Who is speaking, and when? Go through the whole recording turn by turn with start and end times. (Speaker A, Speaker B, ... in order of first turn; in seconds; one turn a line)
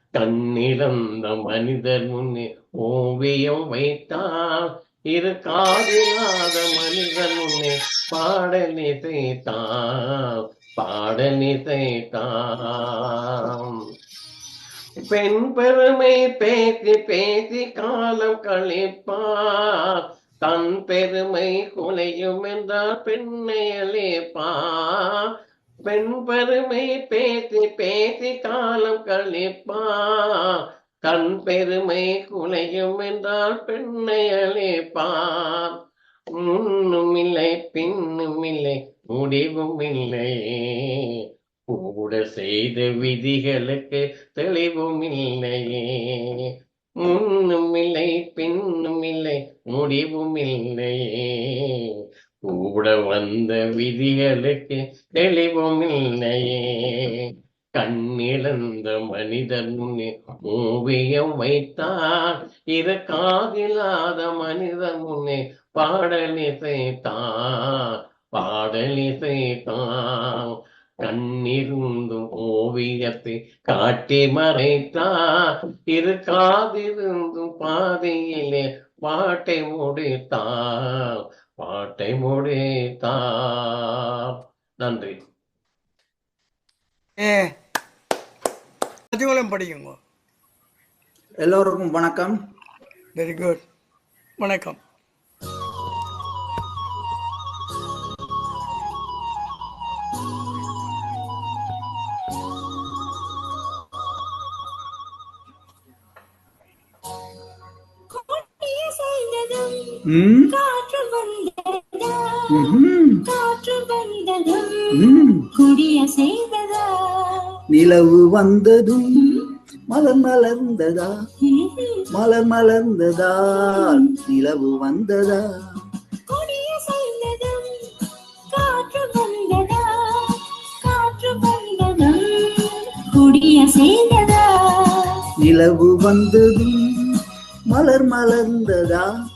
Speaker A: 0.2-13.8
Speaker A: 15.1-25.3
Speaker A: 25.9-35.8
Speaker A: 36.4-41.2
Speaker A: 41.7-46.5
Speaker A: 47.0-51.9
Speaker A: 52.5-85.2
Speaker B: 87.2-87.5
Speaker B: 89.1-90.0
Speaker C: 91.4-92.4
Speaker B: 93.2-93.6
Speaker B: 94.4-94.8
Speaker D: 108.1-117.6
Speaker C: 110.1-110.5
Speaker C: 112.5-113.2
Speaker C: 114.9-115.4
Speaker C: 117.7-119.2
Speaker D: 119.2-119.4
Speaker C: 119.9-121.1
Speaker D: 121.4-122.1
Speaker C: 122.1-125.4
Speaker D: 123.7-124.1
Speaker D: 126.3-127.8
Speaker D: 128.5-135.2
Speaker C: 135.4-136.8
Speaker C: 137.7-139.1